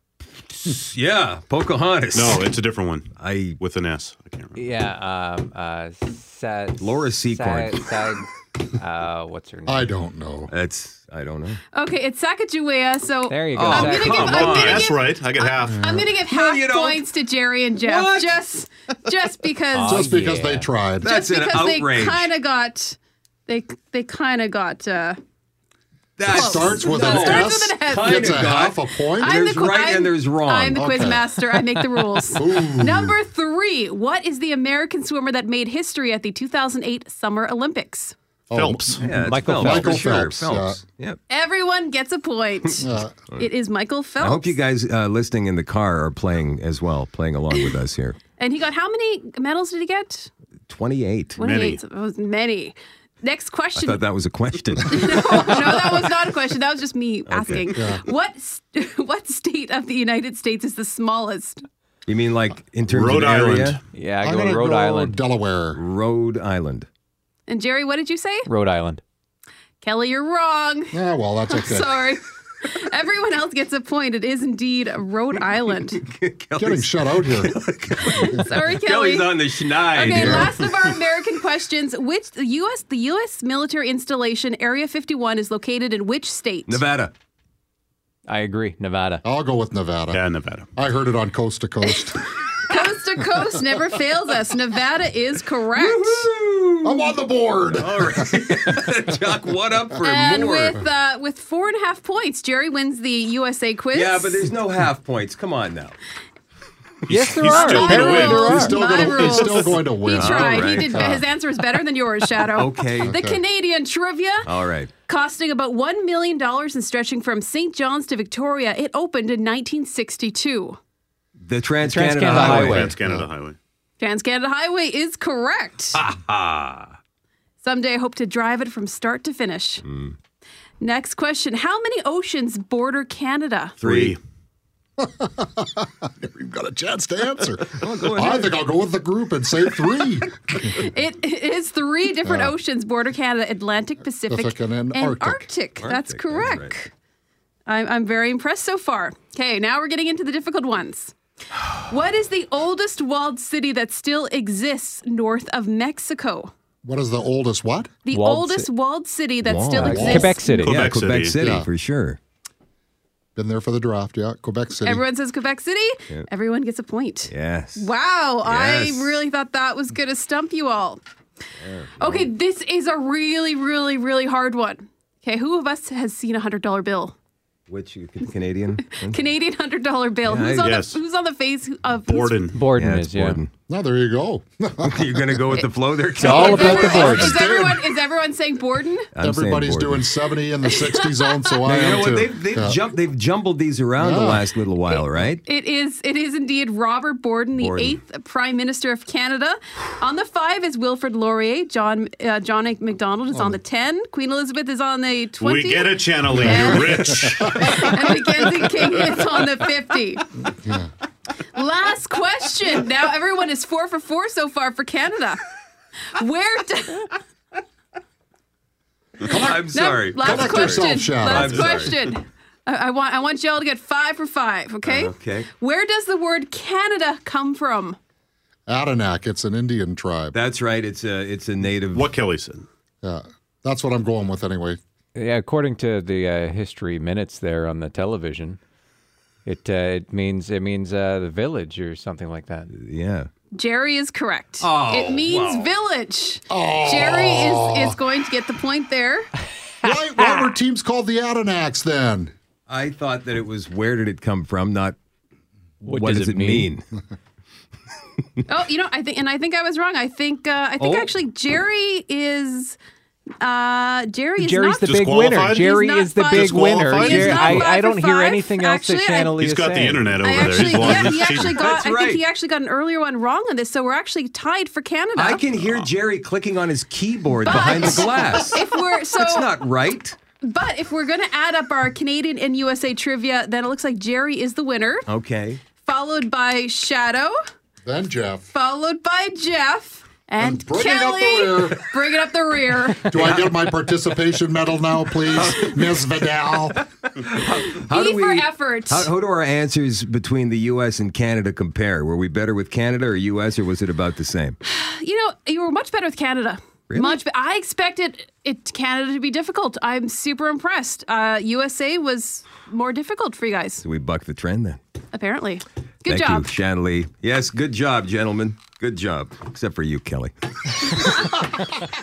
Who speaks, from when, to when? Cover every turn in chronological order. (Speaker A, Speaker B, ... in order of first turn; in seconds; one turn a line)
Speaker A: 0.5-2.5
Speaker B: 2.1-4.8
Speaker A: 3.2-3.6
Speaker C: 4.5-9.9
Speaker A: 6.8-7.8
Speaker D: 9.7-10.5
Speaker A: 10.5-11.6
Speaker E: 11.7-20.1
Speaker C: 13.3-14.4
Speaker A: 13.5-14.8
Speaker B: 14.0-15.9
Speaker D: 15.7-16.1
Speaker A: 16.1-17.0
Speaker A: 17.8-18.4
Speaker C: 19.7-20.7
Speaker D: 19.8-21.0
Speaker A: 21.0-22.3
Speaker E: 21.0-25.2
Speaker A: 26.2-30.9
Speaker E: 26.3-28.4
Speaker D: 26.3-29.3
Speaker E: 29.2-38.1
Speaker D: 30.8-31.2
Speaker D: 32.4-33.1
Speaker D: 38.5-40.8
Speaker B: 38.5-39.0
Speaker A: 39.0-41.2
Speaker C: 39.1-40.0
Speaker E: 41.3-44.6
Speaker D: 42.8-43.1
Speaker A: 44.2-48.2
Speaker E: 48.4-50.3
Speaker A: 50.7-51.4
Speaker B: 51.4-51.8
Speaker E: 51.4-54.0
Speaker A: 53.8-55.7
Speaker E: 54.9-61.6
Speaker A: 57.3-57.7
Speaker D: 57.7-58.0
Speaker A: 62.1-63.8
Speaker B: 62.9-63.8
Speaker C: 63.9-65.2
Speaker D: 64.2-65.8
Speaker A: 65.7-66.9
Speaker E: 67.5-68.5
Speaker C: 68.5-69.0
Speaker E: 69.8-70.9
Speaker D: 70.9-71.9
Speaker E: 71.5-76.0
Speaker A: 75.9-80.6
Speaker D: 76.6-77.5
Speaker E: 78.0-86.8
Speaker D: 80.0-80.5
Speaker A: 86.7-87.1
Speaker C: 88.3-89.2
Speaker D: 89.2-90.2
Speaker B: 90.1-90.7
Speaker D: 90.8-92.2
Speaker E: 92.1-96.3
Speaker A: 95.7-97.1
Speaker D: 96.8-98.3
Speaker A: 97.7-100.8
Speaker E: 100.0-104.5
Speaker A: 103.9-106.0
Speaker B: 107.0-109.8
Speaker C: 107.1-108.8
Speaker E: 107.4-114.5
Speaker D: 108.3-111.2
Speaker A: 110.1-111.0
Speaker A: 112.5-113.1
Speaker D: 113.0-113.4
Speaker A: 114.4-114.9
Speaker E: 115.0-120.8
Speaker A: 121.4-122.9
Speaker C: 121.8-122.9
Speaker B: 122.3-123.6
Speaker D: 122.3-123.3
Speaker E: 124.0-126.0
Speaker A: 125.9-127.0
Speaker E: 127.6-129.8
Speaker A: 129.8-130.1
Speaker E: 130.8-133.7
Speaker B: 133.8-134.2
Speaker A: 133.8-134.2
Speaker D: 135.0-140.7
Speaker A: 137.7-138.6
Speaker E: 140.7-146.9
Speaker D: 142.2-142.5
Speaker D: 144.3-145.5
Speaker A: 145.8-146.7
Speaker E: 147.7-151.1
Speaker E: 151.7-156.5
Speaker D: 156.8-157.9
Speaker E: 158.1-160.5
Speaker C: 158.1-158.7
Speaker A: 159.4-162.2
Speaker C: 159.8-160.8
Speaker D: 159.8-160.4
Speaker B: 160.5-161.3
Speaker D: 161.3-161.7
Speaker D: 163.3-165.0
Speaker E: 164.8-171.0
Speaker A: 167.3-167.9
Speaker A: 168.4-169.2
Speaker A: 171.6-172.3
Speaker E: 172.0-177.2
Speaker A: 177.7-179.2
Speaker E: 178.8-182.4
Speaker A: 180.2-180.8
Speaker B: 180.6-181.0
Speaker B: 182.1-182.6
Speaker C: 182.5-183.4
Speaker A: 182.8-183.5
Speaker D: 183.7-185.2
Speaker A: 184.8-187.4
Speaker D: 186.2-187.9
Speaker E: 186.2-189.1
Speaker C: 186.3-187.4
Speaker A: 189.1-190.1
Speaker D: 189.2-192.8
Speaker E: 190.9-191.3
Speaker A: 191.6-195.4
Speaker D: 194.0-194.4
Speaker E: 194.9-210.2
Speaker A: 197.6-198.0
Speaker B: 205.4-207.8
Speaker D: 206.5-206.8
Speaker D: 210.6-210.9
Speaker E: 211.5-215.4
Speaker E: 216.2-217.2
Speaker D: 219.2-219.7
Speaker A: 219.3-221.9
Speaker E: 219.7-228.0
Speaker D: 220.2-221.7
Speaker A: 224.8-225.5
Speaker D: 228.7-230.3
Speaker A: 230.3-232.1
Speaker B: 231.9-232.7
Speaker D: 233.0-234.8
Speaker C: 235.2-238.6
Speaker C: 239.4-242.7
Speaker A: 242.7-243.3
Speaker E: 243.5-249.3
Speaker A: 244.6-245.7
Speaker D: 246.5-247.9
Speaker D: 249.8-252.3
Speaker C: 249.9-250.5
Speaker A: 252.7-254.9
Speaker C: 255.8-256.7
Speaker A: 255.8-256.8
Speaker E: 258.5-262.8
Speaker A: 260.8-261.1
Speaker E: 263.4-269.4
Speaker C: 264.4-270.4
Speaker B: 264.8-265.7
Speaker B: 266.2-267.7
Speaker B: 269.3-271.6
Speaker E: 270.2-275.5
Speaker A: 270.9-272.2
Speaker A: 275.1-280.1
Speaker E: 277.4-279.5
Speaker D: 277.7-278.0
Speaker E: 280.4-285.1
Speaker A: 285.1-285.6
Speaker E: 285.8-287.4
Speaker D: 287.8-288.5
Speaker E: 288.5-293.3
Speaker D: 290.4-291.8
Speaker D: 293.1-296.8
Speaker A: 295.4-295.9
Speaker A: 296.8-304.6
Speaker E: 297.7-299.1
Speaker E: 304.6-313.8
Speaker A: 306.9-307.2
Speaker A: 313.8-314.8
Speaker E: 315.1-316.5
Speaker A: 316.1-321.3